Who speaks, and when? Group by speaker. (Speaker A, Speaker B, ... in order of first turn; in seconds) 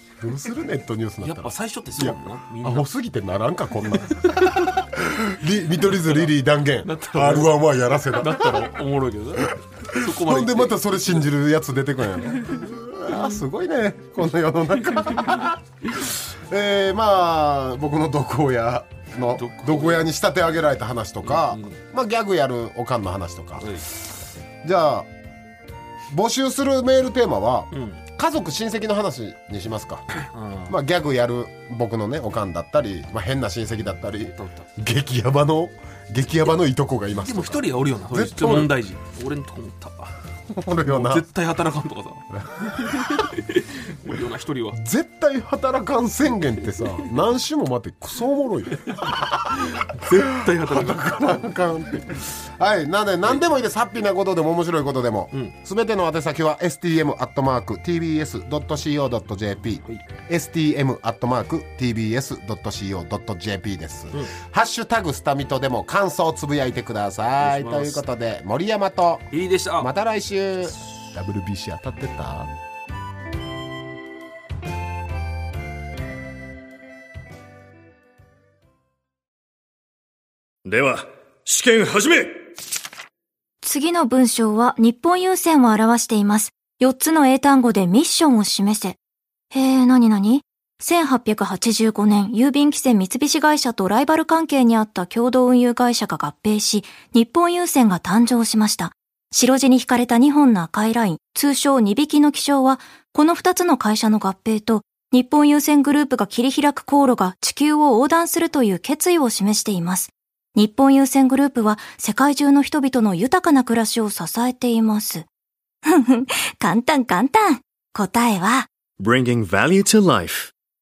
Speaker A: 0.2-8.7, 9.8-25.1, 26.1-38.7, 40.5-41.3, 42.3-43.2, 44.7-72.5
Speaker B: 1.2-2.9, 4.4-4.7, 5.9-6.3, 6.8-11.3, 12.3-13.4, 15.0-15.5, 19.2-20.1, 21.2-21.8, 23.6-23.9, 27.7-28.0, 30.3-30.8, 34.2-34.7, 37.2-40.1, 40.8-44.8, 48.9-51.5, 67.4-68.0, 69.3-69.9
Speaker C: 80.6-82.4, 119.0-120.5
Speaker D: 83.6-89.0, 89.5-115.2, 115.8-118.7